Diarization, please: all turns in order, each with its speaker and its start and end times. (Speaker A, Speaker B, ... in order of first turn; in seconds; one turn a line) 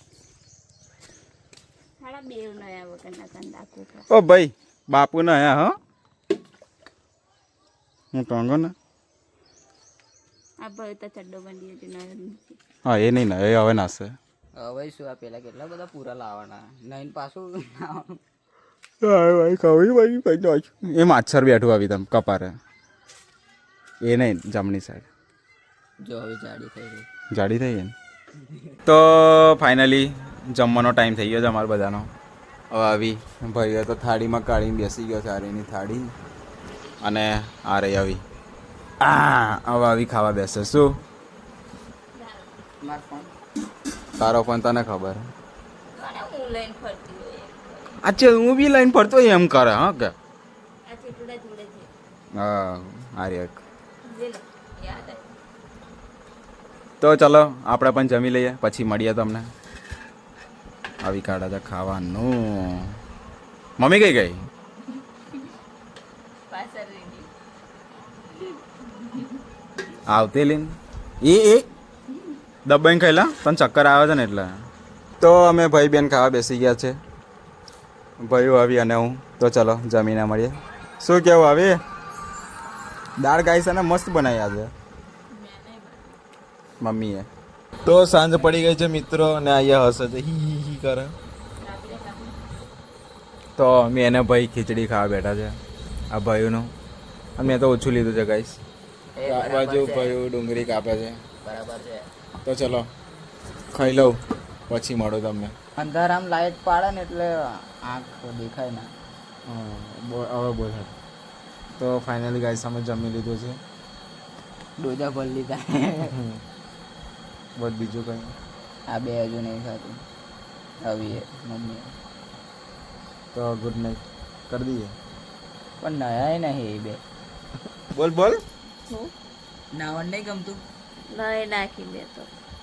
Speaker A: 2.0-4.1
Speaker B: 4.1-5.8
Speaker B: 8.1-8.7
Speaker A: 10.6-12.6
Speaker B: 12.8-14.2
Speaker C: 14.6-18.2
Speaker B: 19.0-22.6
Speaker B: 24.0-25.1
Speaker C: 26.0-27.1
Speaker B: 27.3-27.9
Speaker C: 28.4-28.7
Speaker B: 28.9-32.1
Speaker B: 32.7-36.1
Speaker B: 37.0-38.2
Speaker B: 39.0-41.0
Speaker A: 42.1-42.5
Speaker C: 42.8-43.3
Speaker B: 44.2-45.3
Speaker A: 45.9-48.0
Speaker B: 48.0-50.1
Speaker A: 50.9-51.9
Speaker B: 52.3-53.6
Speaker A: 54.0-55.3
Speaker B: 57.0-59.5
Speaker B: 61.0-63.0
Speaker B: 63.8-64.5
Speaker A: 66.5-67.3
Speaker B: 70.1-71.7
Speaker B: 72.7-74.6
Speaker B: 75.2-77.0
Speaker B: 78.2-81.8
Speaker B: 83.2-84.7
Speaker A: 85.3-86.2
Speaker B: 86.8-87.3
Speaker B: 87.8-91.1
Speaker A: 91.6-92.4
Speaker B: 93.6-95.6
Speaker B: 96.1-96.7
Speaker B: 97.4-98.6
Speaker C: 99.2-100.2
Speaker B: 99.2-101.2
Speaker C: 101.4-102.1
Speaker B: 102.4-102.9
Speaker B: 103.7-105.5
Speaker C: 105.8-108.9
Speaker B: 109.5-110.9
Speaker B: 111.8-113.6
Speaker C: 114.8-116.2
Speaker B: 116.1-116.4
Speaker B: 117.6-118.3
Speaker C: 118.9-120.0
Speaker C: 120.8-122.0
Speaker B: 123.3-125.0
Speaker C: 125.8-127.0
Speaker B: 127.9-128.4
Speaker A: 128.9-129.1
Speaker C: 129.7-130.6
Speaker A: 131.1-132.3